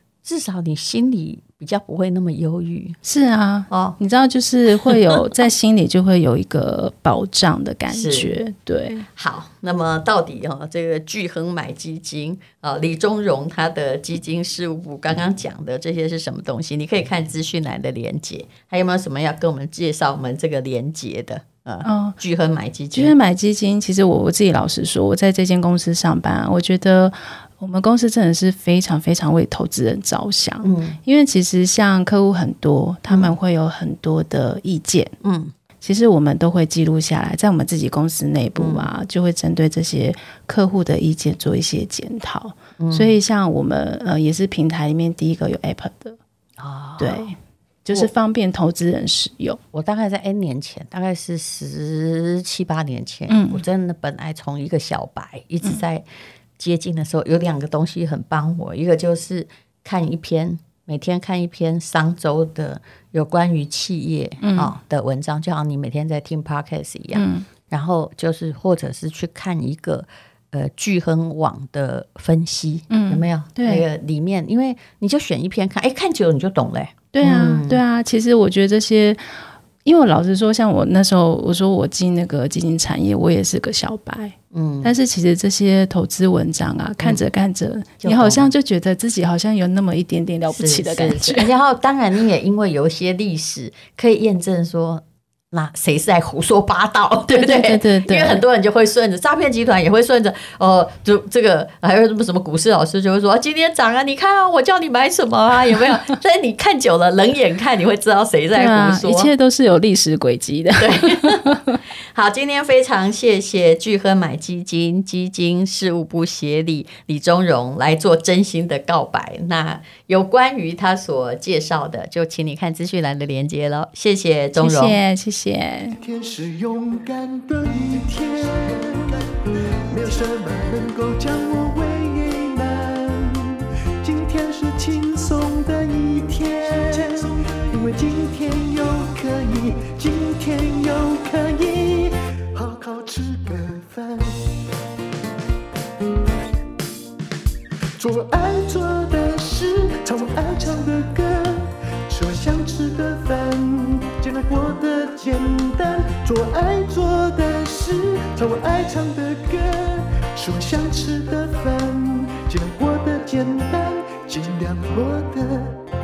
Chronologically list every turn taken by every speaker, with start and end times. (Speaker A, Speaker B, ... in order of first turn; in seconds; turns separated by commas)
Speaker A: 0.2-3.0, Speaker B: 3.0-9.1, Speaker A: 3.7-4.0, Speaker A: 7.9-8.3, Speaker A: 9.2-23.1, Speaker B: 21.8-22.2, Speaker B: 22.9-35.1, Speaker A: 30.6-31.0, Speaker A: 33.1-33.3, Speaker A: 35.2-35.5, Speaker B: 35.8-46.2, Speaker A: 38.5-38.9, Speaker A: 42.8-43.1, Speaker A: 46.6-47.3, Speaker B: 47.0-49.6, Speaker A: 49.7-56.0, Speaker B: 53.3-53.6, Speaker A: 56.6-77.8, Speaker B: 64.4-64.7, Speaker B: 67.1-67.5, Speaker B: 72.9-73.8, Speaker B: 77.1-79.2, Speaker B: 79.8-91.5, Speaker A: 84.5-84.9, Speaker A: 87.0-87.2, Speaker A: 88.0-88.5, Speaker A: 90.5-109.3, Speaker B: 97.3-98.4, Speaker B: 108.5-111.8, Speaker A: 110.8-111.5, Speaker A: 112.1-125.0, Speaker B: 124.6-126.0, Speaker C: 126.0-144.5, Speaker C: 148.0-165.8